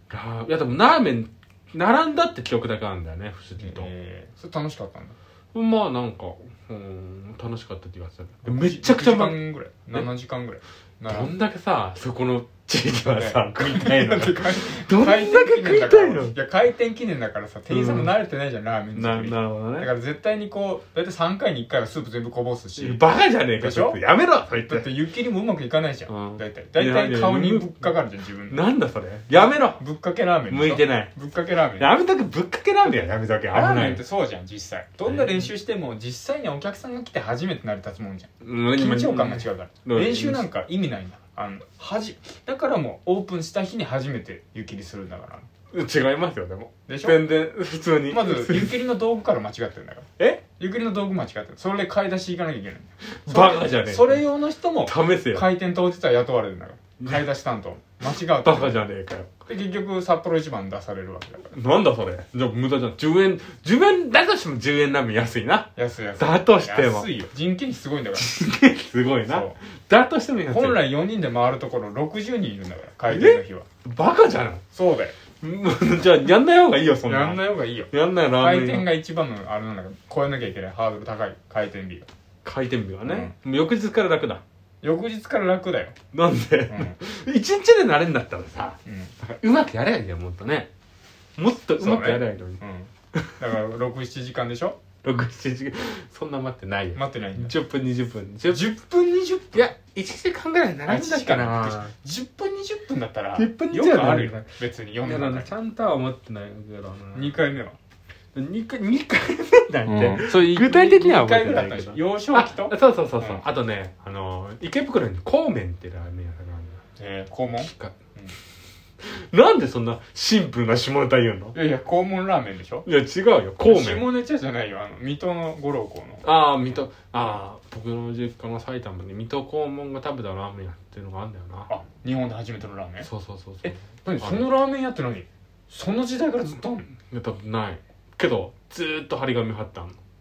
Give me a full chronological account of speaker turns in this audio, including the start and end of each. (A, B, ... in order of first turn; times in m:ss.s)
0:00.1-0:03.9 A
0:03.6-0:05.2 B
0:05.5-0:10.1 A
0:08.4-0:11.3 B
0:11.1-0:16.3 A
0:13.1-0:23.0 B
0:17.7-0:18.1 A
0:18.9-0:19.9 A
0:22.8-0:24.9 A
0:23.6-0:24.0 B
0:24.7-0:28.6 B
0:26.1-0:28.0 A
0:28.5-0:29.8 A
0:29.3-0:31.9 B
0:30.5-0:31.1 A
0:31.8-0:34.0 A
0:33.5-0:45.4 B
0:35.1-0:35.5 A
0:38.4-0:40.5 A
0:45.7-0:48.8 A
0:46.9-0:47.2 B
0:48.1-0:58.8 B
0:53.0-0:54.2 A
0:54.8-0:55.5 A
0:58.4-0:59.3 A
0:59.4-1:01.5 B
1:01.5-1:07.1 A
1:05.8-1:08.3 B
1:08.2-1:10.8 A
1:09.2-1:09.6 B
1:10.5-1:13.7 B
1:13.1-1:14.6 A
1:14.7-1:15.1 B
1:15.4-1:18.9 A
1:17.0-1:22.1 B
1:22.4-1:24.4 A
1:23.0-1:23.4 B
1:24.8-1:25.9 B
1:26.1-1:30.7 A
1:26.7-1:27.0 B
1:28.9-1:29.2 B
1:31.4-1:32.6 A
1:31.8-1:34.8 B
1:35.0-1:38.7 A
1:36.9-1:37.5 B
1:38.5-1:39.7 B
1:39.5-1:41.9 A
1:40.9-1:45.5 B
1:43.4-1:47.4 A
1:47.1-1:47.8 B
1:48.3-1:56.8 A
1:49.9-1:53.4 B
1:57.0-1:58.4 B
1:57.6-1:58.0 A
1:59.0-2:01.6 A
2:01.5-2:02.9 B
2:02.8-2:04.1 A
2:03.6-2:06.2 B
2:06.2-2:11.7 A
2:11.7-2:13.1 B
2:13.0-2:14.5 A
2:13.6-2:16.9 B
2:17.1-2:20.0 A